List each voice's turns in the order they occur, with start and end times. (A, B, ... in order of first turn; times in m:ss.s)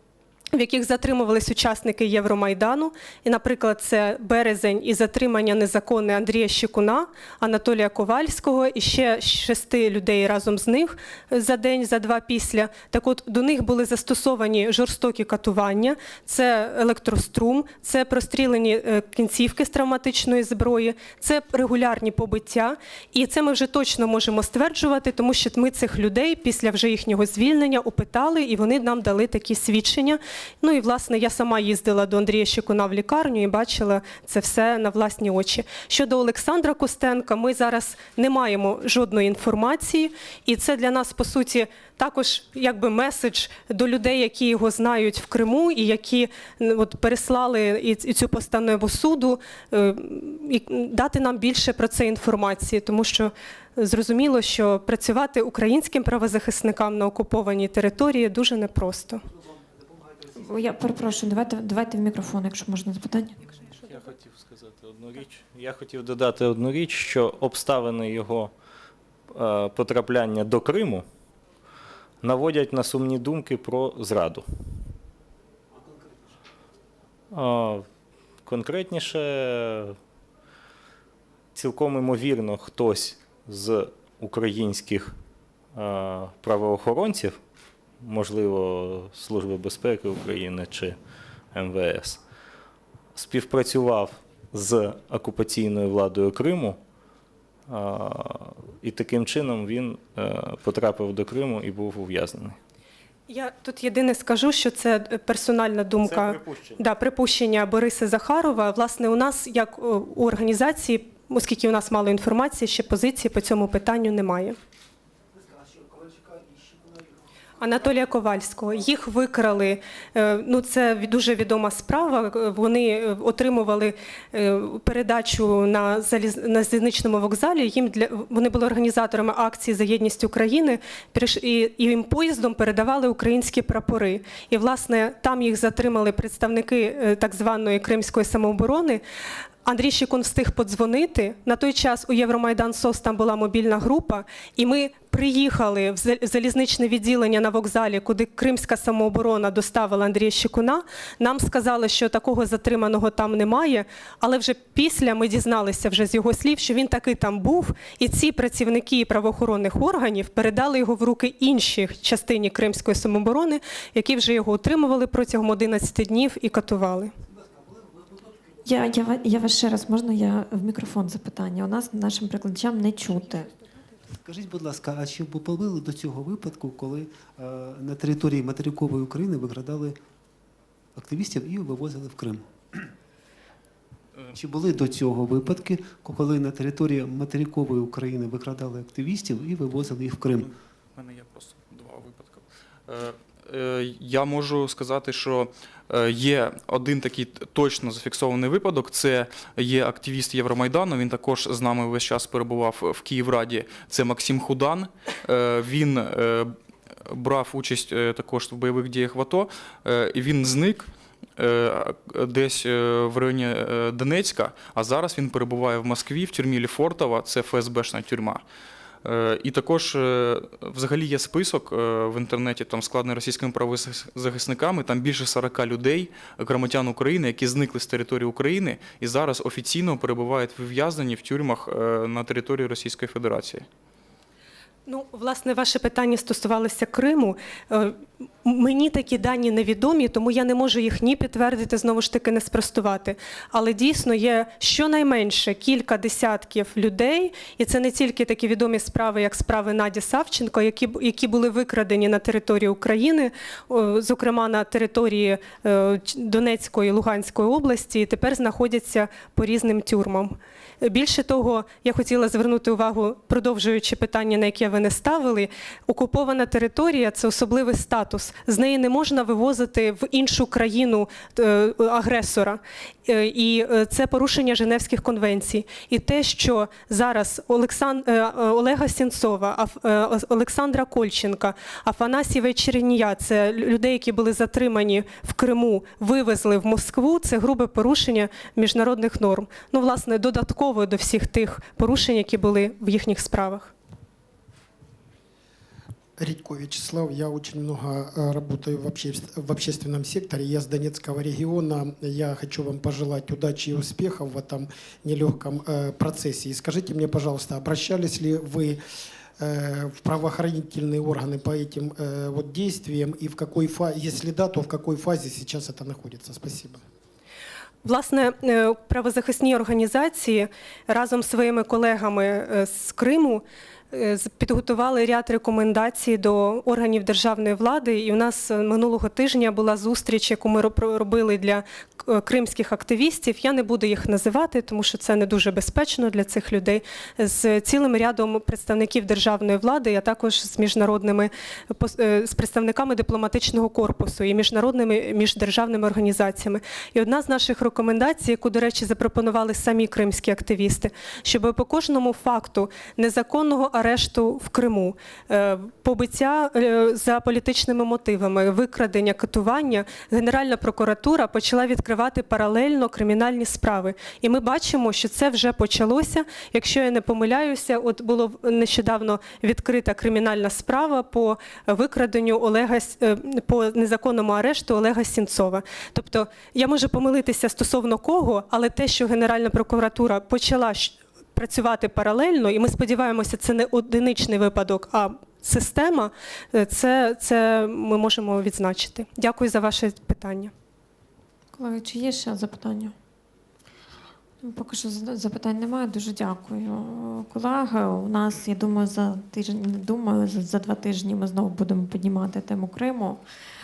0:00.5-0:59.2 A
1:00.4-1:03.5 B
1:03.8-1:08.5 C
1:09.3-1:11.1 C
1:12.2-1:14.5 C
1:15.7-1:16.3 D
1:17.3-1:17.8 C
1:18.4-1:20.0 C
1:21.5-1:25.2 C
1:25.8-1:27.4 C
1:28.0-1:31.0 C
1:31.5-1:32.2 C
1:33.2-1:36.8 C
1:37.7-1:42.6 C
1:43.3-1:54.6 A
1:46.0-1:46.8 C
1:55.4-1:57.1 D
1:57.6-2:19.0 A
2:19.6-2:47.1 A
2:47.3-2:48.5 D
2:48.6-2:53.5 B
2:54.2-3:00.0 D
3:01.0-3:02.9 D
3:04.3-3:10.5 D
3:10.4-3:26.6 E
3:27.1-3:38.4 E
3:39.0-3:53.7 E
3:54.9-4:53.7 A
4:56.2-5:08.8 F
5:09.4-5:16.8 F
5:17.8-6:30.5 A
6:31.5-6:32.9 B
6:34.4-6:43.2 B